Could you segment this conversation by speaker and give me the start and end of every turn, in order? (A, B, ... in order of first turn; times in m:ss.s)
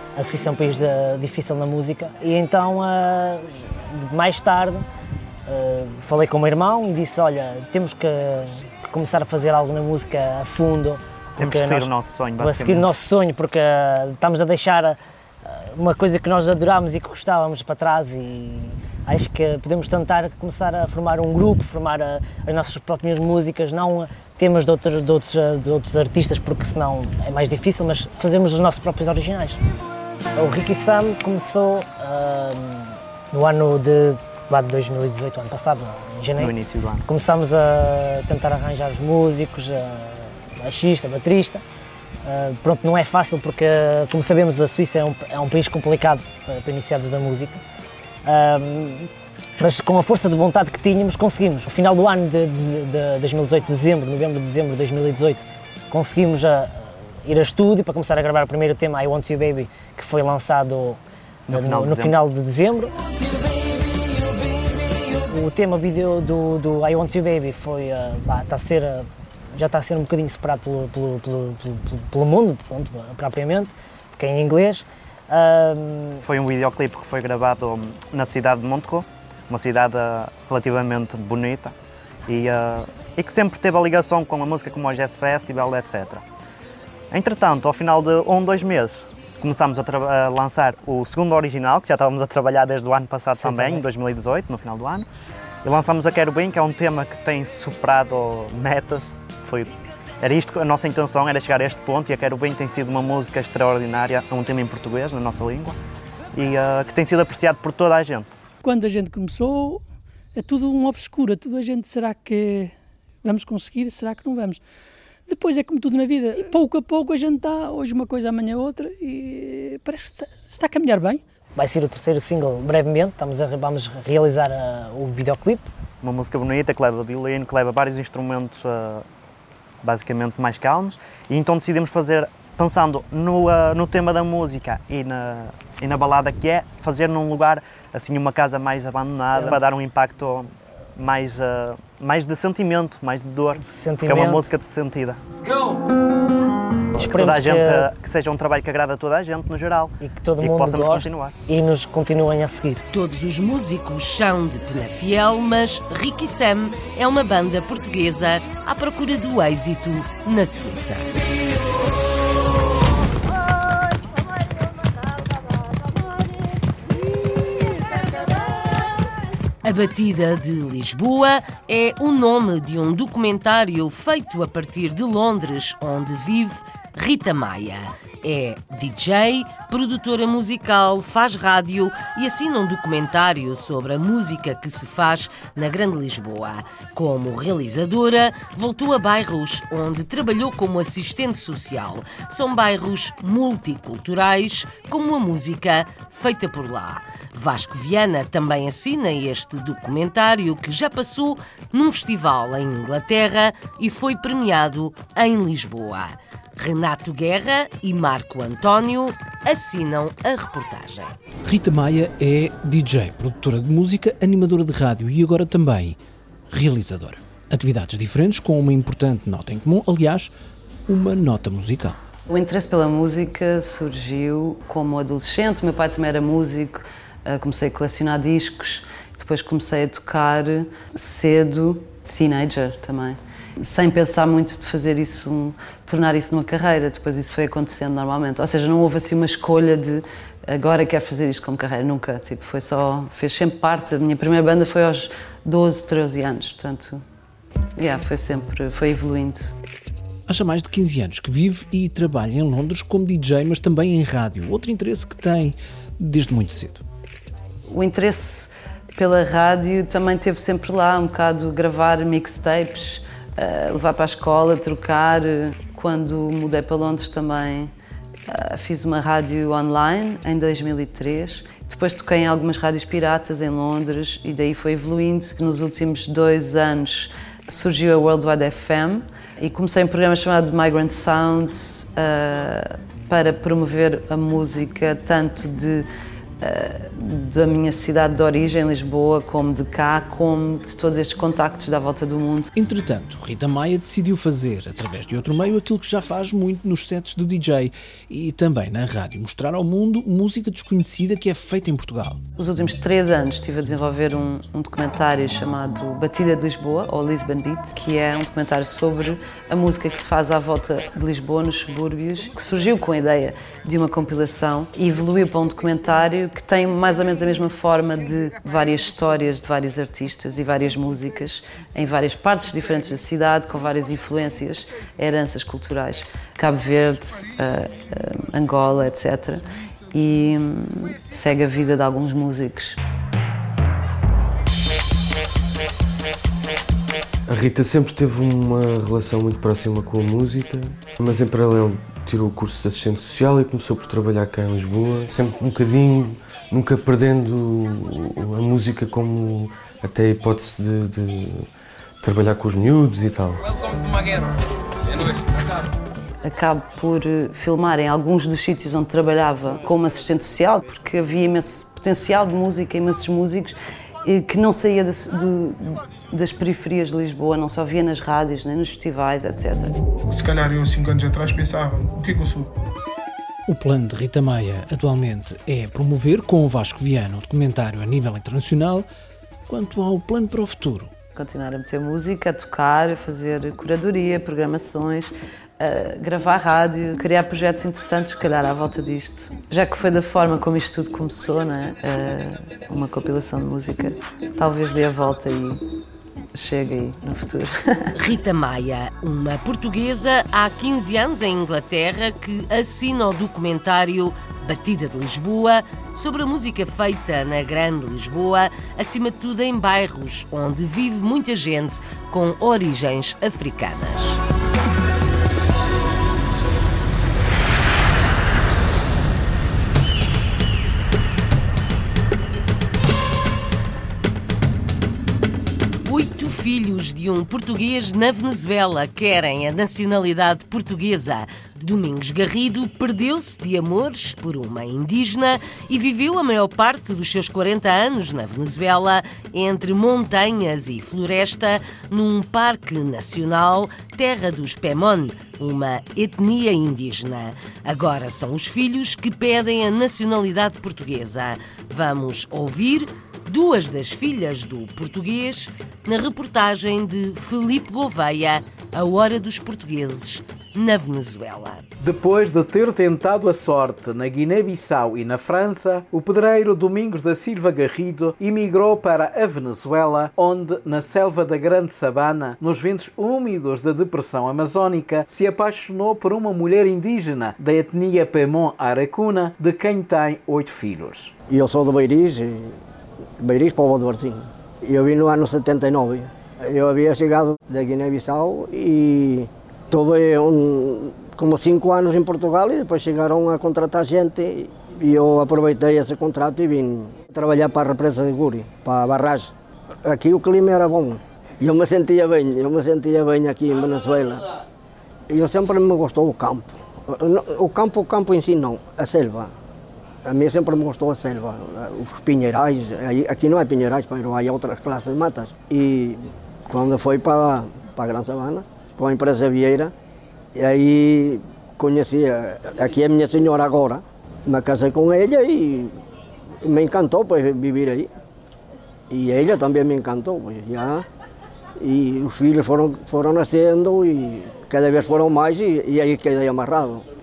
0:00.2-0:04.9 A
0:05.5-0:29.6 A
0:11.4-0:13.0 B
0:30.4-0:36.5 A
0:36.4-0:37.0 B
0:37.1-0:41.6 A
0:42.2-0:47.6 A
0:48.2-0:49.1 A
0:49.6-1:02.9 A
1:01.5-1:02.2 B
1:05.3-1:16.2 A
1:16.2-1:21.7 B
1:22.3-1:26.2 B
1:27.1-1:35.1 B
1:33.4-1:33.8 A
1:35.6-1:45.8 B
1:46.4-1:48.3 B
1:48.6-1:49.8 C
1:50.4-1:54.6 C
1:55.3-2:01.2 C
2:01.6-2:05.7 A
2:06.0-2:09.1 B
2:09.8-2:25.2 B
2:23.7-2:24.5 A
2:27.0-2:31.3 B
2:27.0-2:27.9 A
2:30.0-2:32.8 A
2:32.9-2:41.1 D
2:49.6-3:31.2 D
3:31.5-3:36.0 E
3:36.5-3:40.3 E
3:40.9-3:42.0 E
3:42.3-4:07.0 F
4:07.8-4:09.5 F
4:10.3-4:16.8 E
4:17.7-4:27.7 F
4:28.3-4:45.9 F
4:46.4-4:52.5 F
4:52.6-5:02.2 E
5:02.4-5:32.8 F
5:37.3-5:51.5 G
5:52.0-5:53.5 G
5:56.2-6:09.8 F
6:10.1-6:12.5 H
6:13.5-6:18.9 E
6:19.5-6:20.9 E
6:21.2-6:35.6 F
6:36.3-6:37.8 F
6:38.0-6:54.2 D
7:05.8-7:41.6 D
7:41.8-8:01.1 I
8:01.3-8:02.6 J
8:03.2-8:19.3 J
8:19.8-8:24.2 J
8:25.1-8:29.3 J
8:30.0-8:39.7 J
8:40.3-8:45.8 J
8:46.4-8:47.9 J
8:48.9-8:50.9 J
8:51.6-8:56.8 J